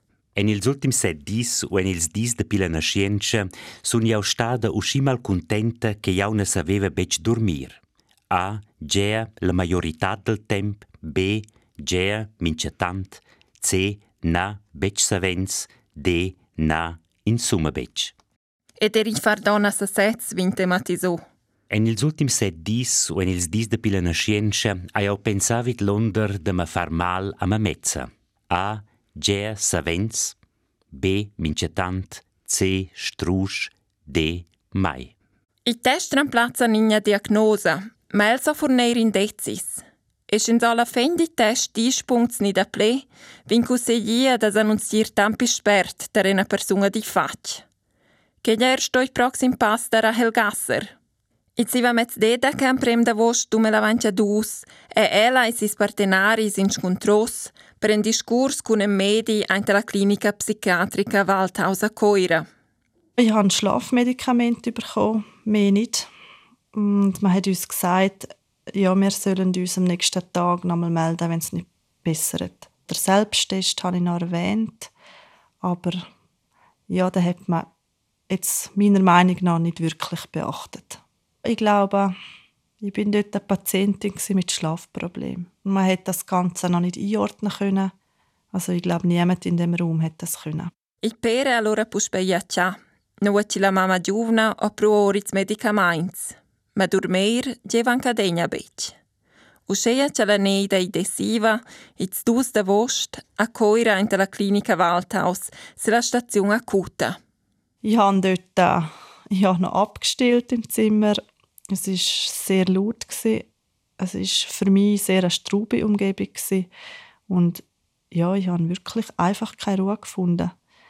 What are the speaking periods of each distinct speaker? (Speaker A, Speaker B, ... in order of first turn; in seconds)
Speaker A: 0.4-18.1, 21.7-30.4, 30.9-35.1
Speaker B: 18.8-21.2, 35.7-47.6, 48.4-50.9, 51.6-62.5, 91.0-99.0, 99.7-107.2
Speaker C: 63.2-66.1, 66.7-74.9, 75.6-76.0, 76.9-77.7, 78.3-82.1, 82.8-87.9, 88.5-90.7, 107.8-113.5, 114.0-116.7, 117.3-120.5